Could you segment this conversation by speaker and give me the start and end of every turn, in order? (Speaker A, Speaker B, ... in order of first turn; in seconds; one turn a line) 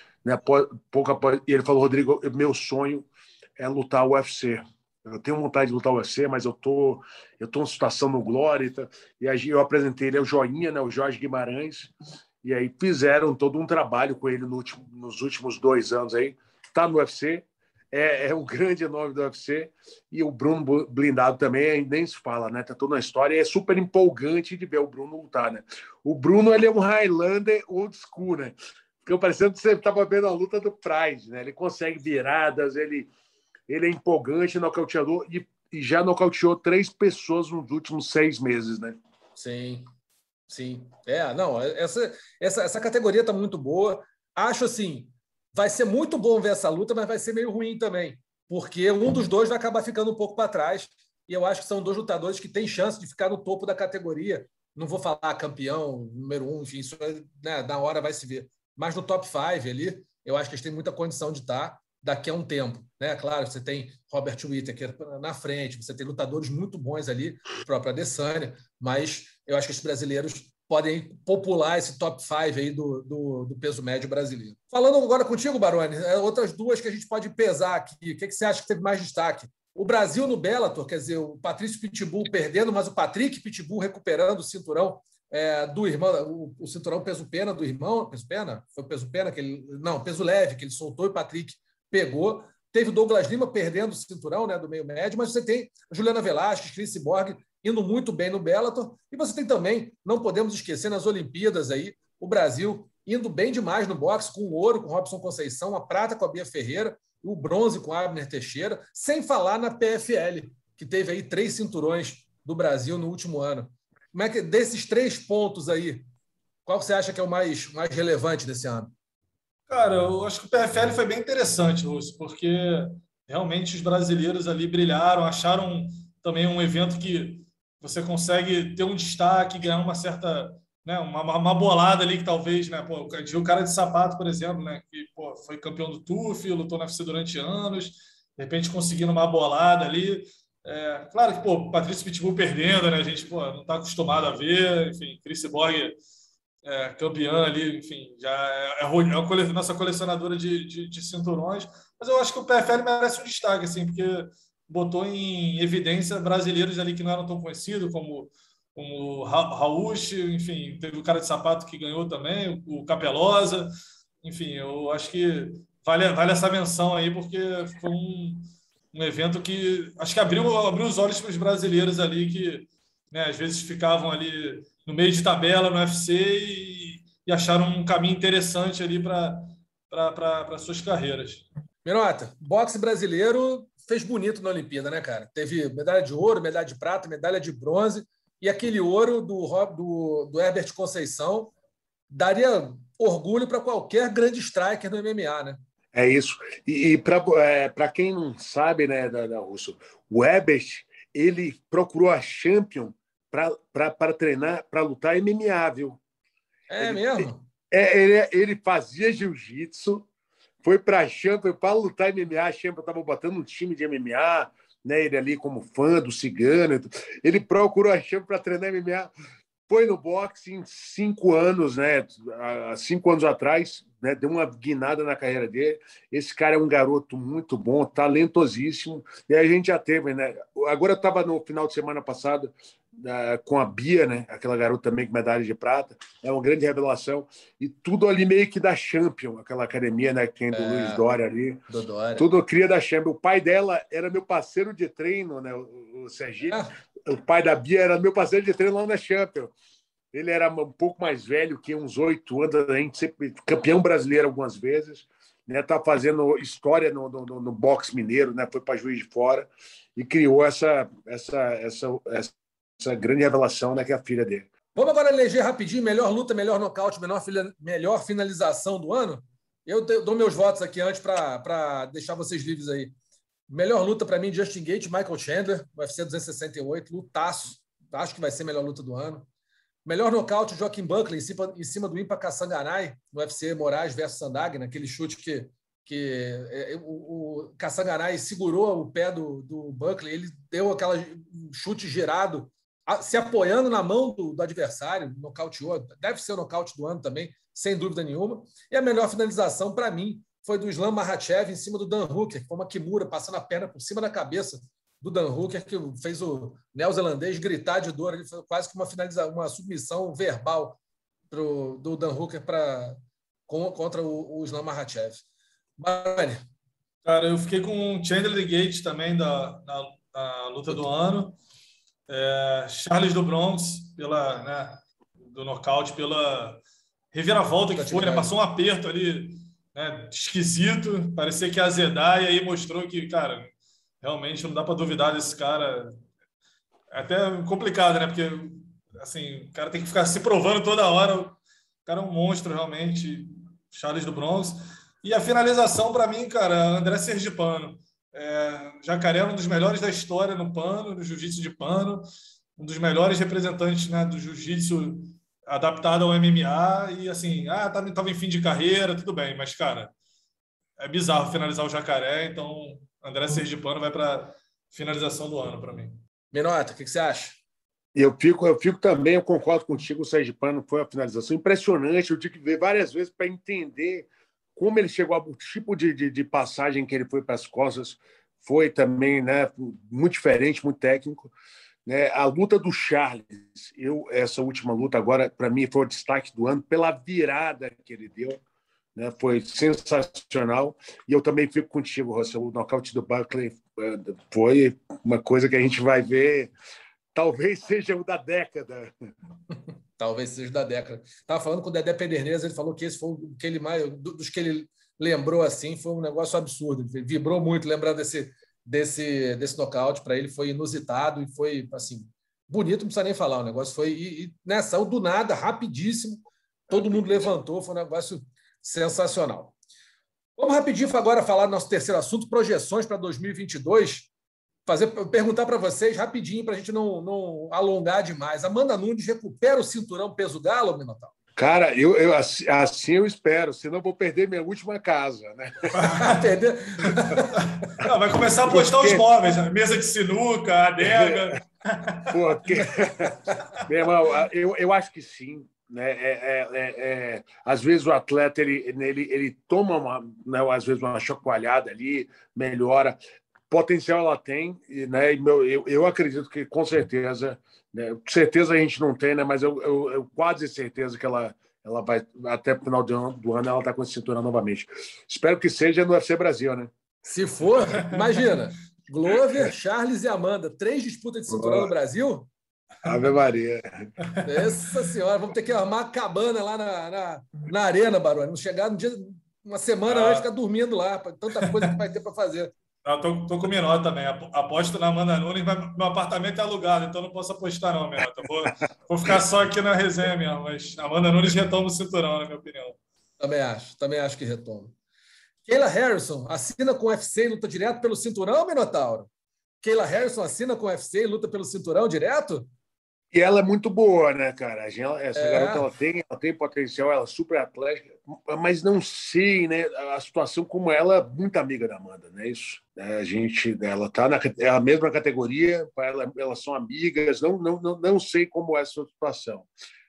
Speaker A: 0.2-33.1
Speaker A: 33.7-39.0
Speaker B: 39.4-39.9
Speaker B: 40.5-116.0
Speaker B: 116.7-118.9
Speaker C: 119.7-145.9
Speaker C: 146.6-181.4
Speaker B: 181.8-191.5
Speaker B: 192.1-195.6
Speaker A: 195.9-206.0
Speaker B: 206.7-207.4
Speaker A: 206.8-210.1
Speaker A: 210.6-219.1
Speaker A: 219.7-241.6
Speaker B: 240.5-241.0
Speaker B: 241.7-242.3
Speaker A: 242.2-249.5
Speaker B: 246.4-246.7
Speaker A: 250.1-264.5
Speaker B: 264.7-272.9
Speaker B: 273.5-279.2
Speaker B: 279.8-310.8
Speaker B: 311.3-315.2
Speaker B: 315.8-316.4
Speaker C: 317.0-321.4
Speaker C: 322.1-336.0
Speaker B: 327.8-328.3
Speaker C: 336.9-352.1
Speaker C: 352.6-359.9
Speaker C: 360.8-366.0
Speaker B: 366.3-367.4
Speaker A: 367.9-381.3
Speaker A: 381.9-388.4
Speaker A: 388.9-396.5
Speaker A: 397.1-398.9
Speaker B: 400.0-419.5
Speaker A: 416.7-417.3
Speaker B: 420.4-424.1
Speaker B: 424.6-431.1
Speaker A: 431.4-435.9
Speaker C: 435.7-436.2
Speaker B: 436.0-437.5
Speaker C: 437.5-442.1
Speaker A: 438.4-439.1
Speaker A: 440.8-441.4
Speaker A: 442.1-453.0
Speaker A: 453.5-466.7
Speaker B: 467.0-472.3
Speaker A: 471.3-471.7
Speaker A: 472.8-473.9
Speaker C: 474.1-474.4
Speaker B: 474.2-482.5
Speaker C: 479.9-480.3
Speaker C: 481.3-481.8
Speaker C: 482.8-492.8
Speaker B: 493.2-494.7
Speaker B: 495.4-499.1
Speaker B: 499.6-502.5
Speaker A: 503.1-519.5
Speaker B: 505.1-505.6